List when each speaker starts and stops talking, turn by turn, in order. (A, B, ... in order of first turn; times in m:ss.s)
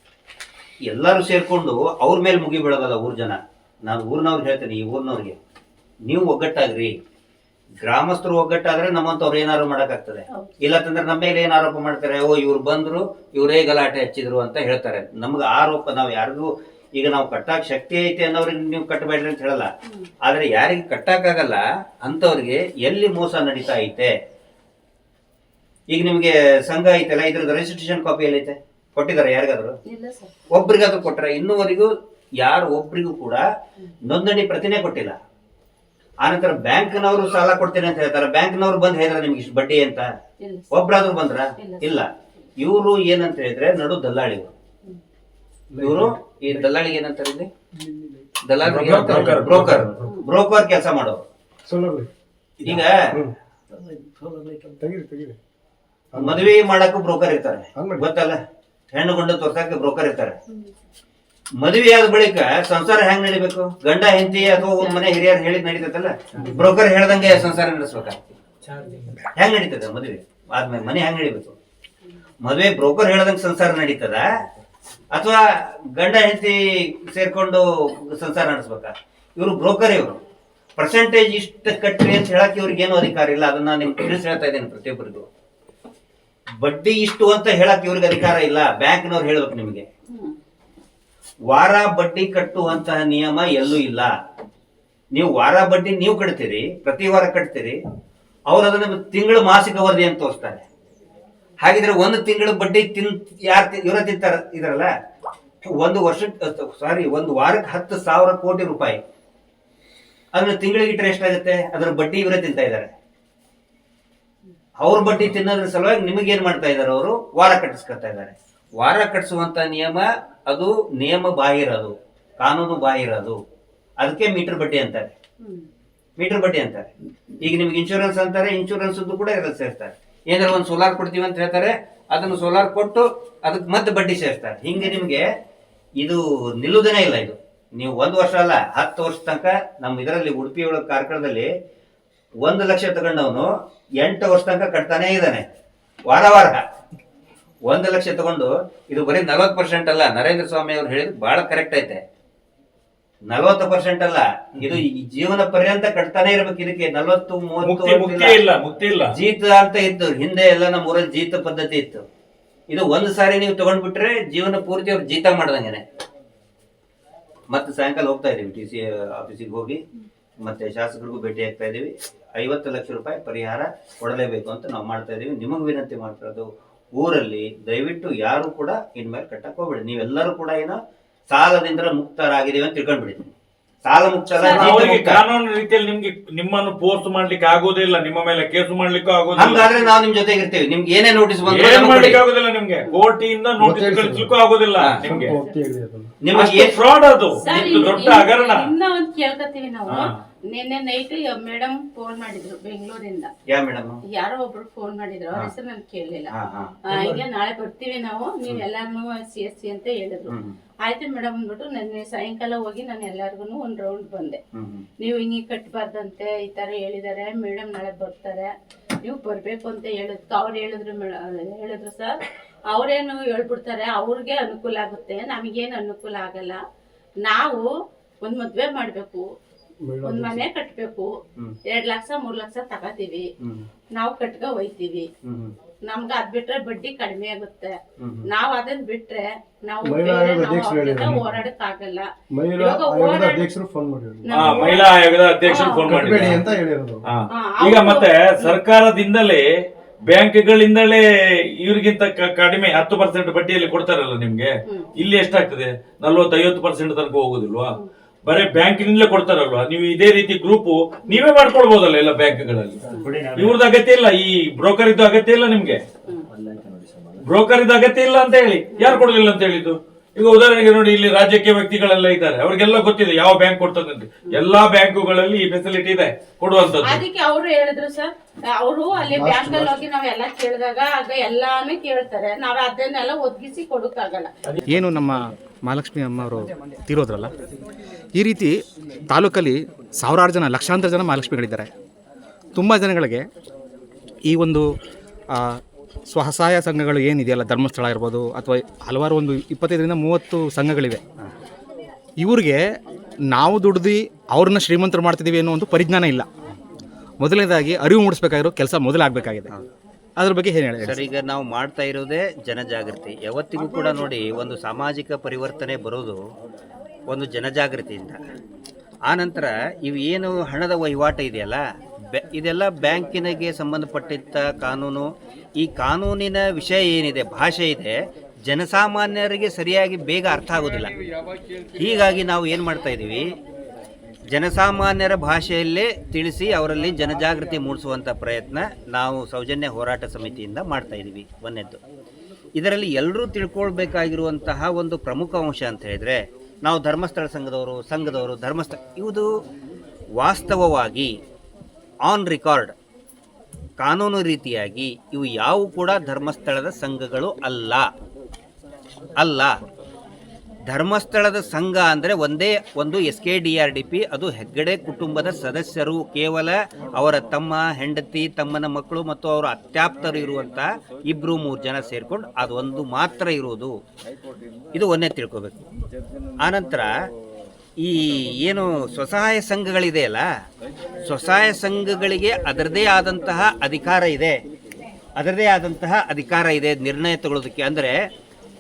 0:00.9-0:05.4 A
0:06.1-0:06.9 A
0:07.8-0:19.7 A
0:20.2-0:24.1 A
0:25.9-0:29.8 A
0:29.9-0:30.3 B
0:30.5-0:33.4 A
0:34.1-0:35.2 A
0:36.2-0:40.1 A
0:40.4-0:40.7 B
0:40.7-0:44.5 A
0:41.6-0:42.0 B
0:45.7-0:46.7 C
0:45.8-0:47.5 A
0:47.8-0:48.3 C
0:48.4-0:51.2 A
0:48.6-0:49.9 D
0:51.7-0:52.1 C
0:52.6-0:53.1 A
0:53.0-0:53.3 C
0:54.1-0:55.4 C
0:56.1-0:56.5 C
0:56.2-0:58.4 A
0:57.8-0:58.1 C
0:58.9-1:00.4 A
1:01.6-1:08.2 A
1:09.4-1:11.6 A
1:12.4-1:14.3 A
1:15.1-1:20.2 A
1:20.8-1:25.3 A
1:26.6-1:29.9 A
1:30.1-1:30.4 B
1:31.5-1:34.1 A
1:35.1-1:37.8 A
1:38.5-1:40.6 A
1:41.6-1:44.9 A
1:45.7-1:49.0 A
1:50.3-1:52.9 A
1:54.8-2:03.4 A
2:04.0-2:05.2 A
2:06.2-2:06.9 A
2:07.4-2:15.3 A
2:16.0-2:21.5 A
2:22.4-2:23.5 A
2:24.0-2:25.4 A
2:26.1-2:26.6 A
2:27.7-2:32.0 A
2:33.3-2:38.4 A
2:37.6-2:39.1 D
2:39.1-2:42.0 A
2:42.7-2:45.8 A
2:47.5-2:49.8 A
2:50.4-3:00.8 A
3:01.3-3:03.3 A
3:03.8-3:05.2 A
3:04.4-3:04.9 B
3:04.5-3:09.7 D
3:09.4-3:12.2 A
3:11.4-3:15.3 D
3:13.6-3:14.4 C
3:15.0-3:16.2 C
3:16.2-3:16.8 A
3:16.3-3:18.7 D
3:17.4-3:23.3 B
3:19.9-3:20.1 D
3:23.5-3:24.0 A
3:24.1-3:26.3 B
3:26.3-3:27.2 A
3:26.9-3:30.3 B
3:30.3-3:30.6 A
3:30.8-3:34.4 B
3:34.6-3:34.9 A
3:35.0-3:38.5 B
3:39.0-3:46.6 B
3:47.2-3:47.7 B
3:48.2-3:49.2 B
3:49.8-3:50.4 C
3:50.0-3:51.1 B
3:51.7-3:53.3 B
3:53.4-3:53.7 A
3:54.0-3:55.1 B
3:55.2-3:55.5 A
3:55.9-3:57.7 B
3:58.0-3:58.3 A
3:58.3-4:03.5 B
3:59.8-4:01.4 C
4:02.3-4:04.7 C
4:04.2-4:06.0 B
4:04.3-4:06.4 D
4:05.8-4:07.0 C
4:07.0-4:09.4 D
4:07.3-4:08.6 B
4:10.1-4:11.1 D
4:11.6-4:22.8 D
4:22.9-4:23.6 A
4:23.4-4:25.8 D
4:27.2-4:37.0 D
4:28.8-4:29.0 B
4:36.8-4:44.3 B
4:39.1-4:39.7 C
4:44.7-4:47.3 E
4:48.2-4:48.5 E
4:49.1-4:51.7 E
4:52.6-4:53.2 E
4:54.3-4:54.7 E
4:55.3-4:55.6 E
4:56.1-5:01.0 E
5:02.2-5:02.6 E
5:03.3-5:06.3 E
5:07.2-5:09.5 E
5:10.2-5:11.0 E
5:10.8-5:16.2 A
5:17.1-5:18.2 A
5:19.1-5:30.9 A
5:31.8-5:33.3 A
5:34.3-5:41.8 A
5:42.6-5:49.3 A
5:50.2-5:51.1 A
5:52.1-5:52.7 A
5:53.8-5:57.9 A
5:59.2-5:59.6 A
6:00.7-6:13.7 A
6:14.8-6:15.6 A
6:16.4-6:16.9 A
6:17.8-6:20.3 A
6:21.0-6:24.4 A
6:25.2-6:28.0 A